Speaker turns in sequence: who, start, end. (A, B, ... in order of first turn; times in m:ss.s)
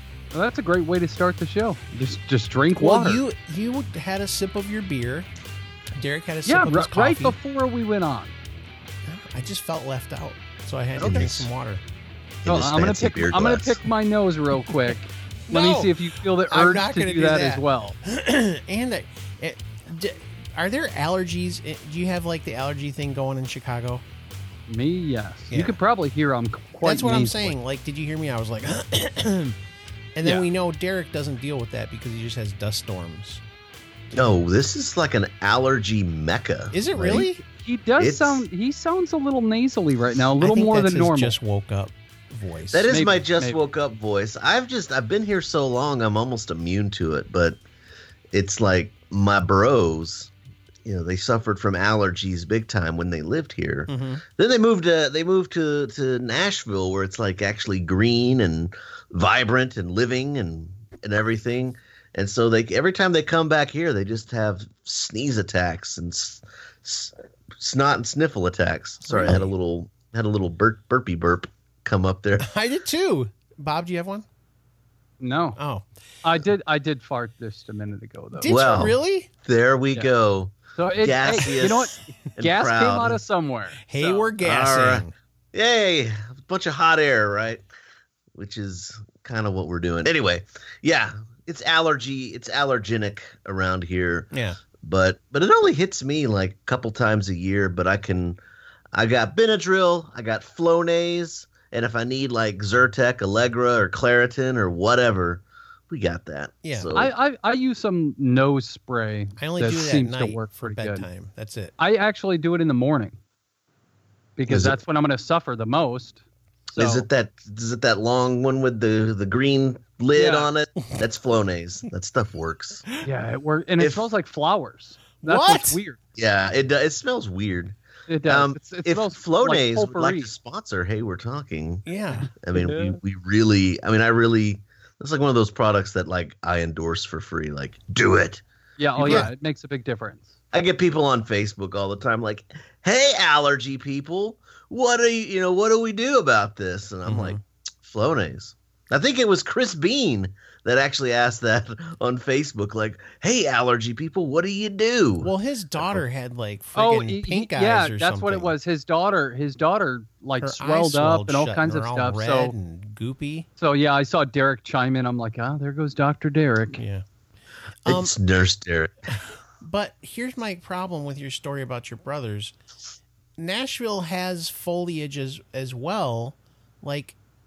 0:00.3-0:03.2 A
0:02.8-0:05.3 B
0:06.0-0:07.4 B
0:06.4-0:08.3 A
0:09.1-0:11.8 B
0:11.0-0:11.5 C
0:12.4-0:13.8 C
0:12.5-0:18.0 A
0:15.5-0:16.0 B
0:16.5-0:24.0 B
0:24.7-0:27.6 A
0:25.5-0:25.8 B
0:26.8-0:29.6 B
0:30.2-0:33.4 B
0:34.1-0:37.3 C
0:36.7-0:37.4 B
0:37.4-0:41.4 A
0:38.0-0:38.4 C
0:40.4-0:43.0 B
0:42.7-0:47.6 C
0:42.9-0:43.6 A
0:48.3-0:50.3 C
0:50.8-1:12.5 C
0:53.9-0:54.2 B
1:09.1-1:09.5 B
1:12.4-1:14.3 B
1:15.2-1:15.6 A
1:15.6-1:15.9 B
1:16.2-1:18.6 A
1:18.4-1:19.3 B
1:18.4-1:23.2 C
1:20.7-1:24.3 A
1:21.4-1:21.7 B
1:23.8-1:25.1 B
1:24.4-1:27.6 C
1:28.3-1:34.3 C
1:34.3-1:34.6 B
1:34.8-1:38.4 C
1:38.9-1:47.1 C
1:46.6-1:46.9 B
1:47.0-1:51.1 A
1:49.4-1:51.8 B
1:51.8-1:53.2 A
1:54.4-1:57.0 A
1:54.5-1:54.8 C
1:56.8-2:02.9 C
2:00.1-2:00.5 A
2:03.0-2:06.0 A
2:03.8-2:04.1 C
2:05.2-2:05.8 B
2:06.2-2:18.4 C
2:08.1-2:10.3 A
2:11.9-2:12.3 B
2:12.2-2:13.0 A
2:18.8-2:20.3 A
2:19.0-2:19.3 C
2:19.0-2:19.3 B
2:20.5-2:36.0 C
2:27.1-2:27.4 B
2:35.2-2:38.5 B
2:36.8-2:42.5 A
2:40.4-2:43.5 B
2:43.6-2:46.8 A
2:46.8-2:47.0 B
2:47.8-2:48.2 B
2:47.8-2:49.1 C
2:49.6-2:52.5 B
2:53.4-2:57.2 B